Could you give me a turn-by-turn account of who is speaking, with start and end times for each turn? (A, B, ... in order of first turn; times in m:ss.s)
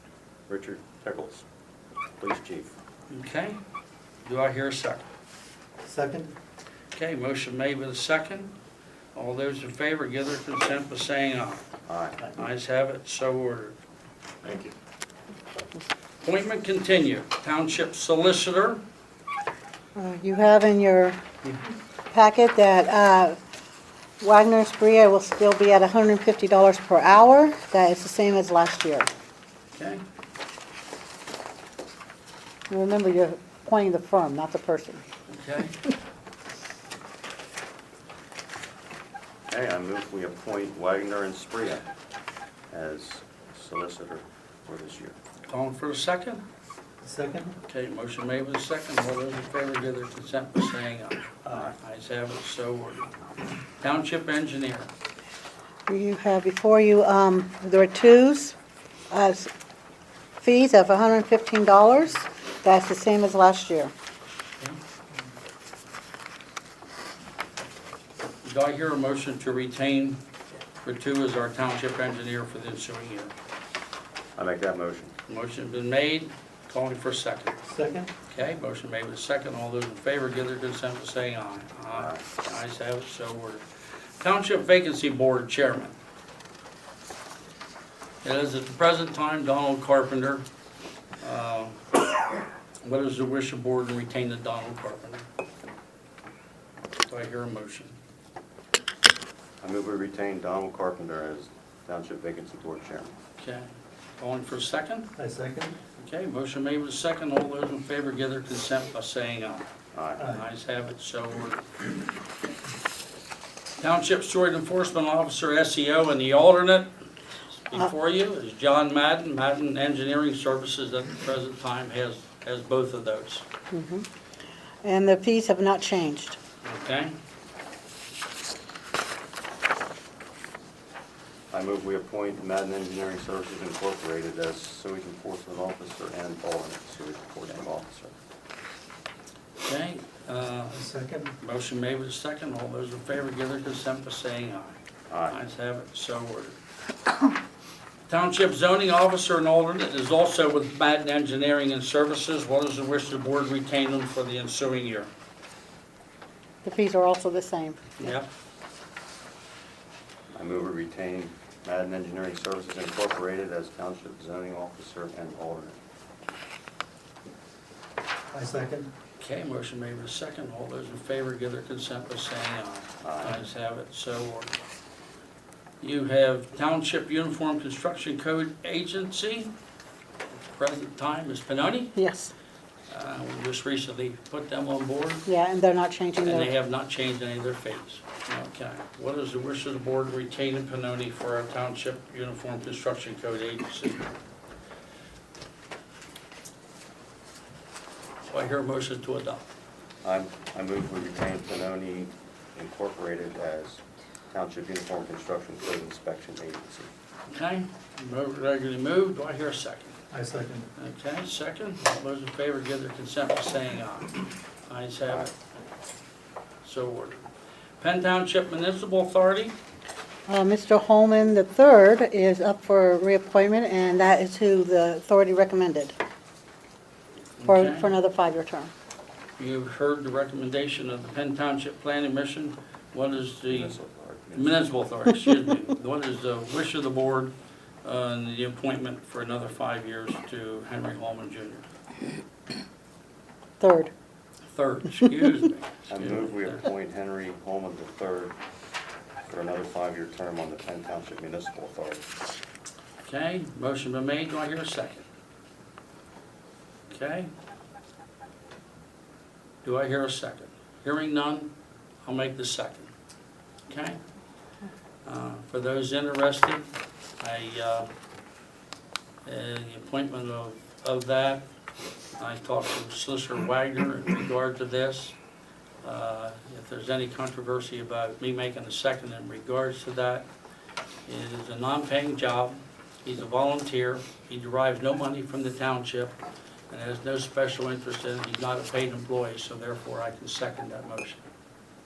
0:00.5-0:01.4 A
0:02.2-0:02.7 A
0:03.1-0:03.6 B
0:04.2-0:05.0 B
0:05.8-0:06.3 C
0:06.9-0:08.5 B
0:09.2-0:11.6 B
0:11.9-0:12.3 A
0:12.4-0:13.8 B
0:14.4-0:14.7 A
0:16.2-0:18.8 B
0:20.0-0:21.2 D
0:22.1-0:23.4 D
0:24.2-0:29.1 D
0:29.7-0:30.0 B
0:32.7-0:35.0 D
0:35.3-0:35.8 B
0:39.5-0:41.8 A
0:42.7-0:45.2 A
0:45.5-0:46.4 B
0:47.0-0:47.6 C
0:47.7-0:53.1 B
0:53.8-0:54.9 B
0:55.9-0:58.6 D
0:59.1-0:59.5 D
1:00.4-1:03.9 D
1:08.4-1:10.2 B
1:10.8-1:13.3 B
1:14.4-1:15.1 A
1:15.3-1:17.6 B
1:17.7-1:18.1 C
1:18.3-1:23.6 B
1:21.9-1:22.3 A
1:24.2-1:26.0 B
1:28.2-1:30.5 B
1:31.2-1:31.8 B
1:32.8-1:35.2 B
1:37.1-1:38.0 B
1:39.6-1:43.1 A
1:43.4-1:45.1 B
1:45.2-1:45.8 C
1:46.0-1:49.7 B
1:49.9-1:50.3 A
1:50.2-1:51.7 B
1:53.8-1:56.9 B
1:57.7-2:03.5 B
2:03.7-2:04.1 D
2:04.8-2:06.4 D
2:06.6-2:07.2 B
2:11.5-2:18.1 A
2:19.6-2:20.8 B
2:20.7-2:21.4 C
2:21.4-2:24.8 B
2:25.1-2:25.4 A
2:25.3-2:26.6 B
2:28.1-2:35.1 B
2:36.6-2:38.1 D
2:38.0-2:38.3 B
2:40.3-2:45.8 A
2:48.3-2:48.9 C
2:49.2-2:54.5 B
2:53.0-2:53.4 A
2:55.8-2:59.5 B
3:00.4-3:02.0 B
3:02.0-3:02.3 D
3:02.9-3:05.3 B
3:05.3-3:06.5 D
3:06.2-3:14.1 B
3:18.3-3:19.4 B
3:20.0-3:26.9 A
3:27.3-3:30.0 B
3:30.1-3:30.7 C
3:30.8-3:35.3 B
3:36.6-3:37.2 B
3:37.8-3:39.6 B
3:40.3-3:45.9 D
3:47.4-3:47.9 B
3:47.5-3:48.7 D
3:49.4-3:53.8 B
3:53.5-3:54.6 A
3:54.4-3:57.3 B
3:57.8-4:01.6 B
4:03.6-4:03.9 D
4:04.5-4:06.7 B
4:05.9-4:08.4 A
4:09.2-4:12.1 A
4:13.0-4:15.1 B
4:16.9-4:17.3 B
4:19.6-4:21.5 B
4:22.0-4:22.9 B
4:23.7-4:24.0 B
4:25.0-4:26.6 B
4:27.2-4:27.9 B
4:29.2-4:31.4 B
4:32.2-4:35.2 B
4:35.8-4:40.3 B
4:41.1-4:46.2 B
4:46.7-4:51.2 B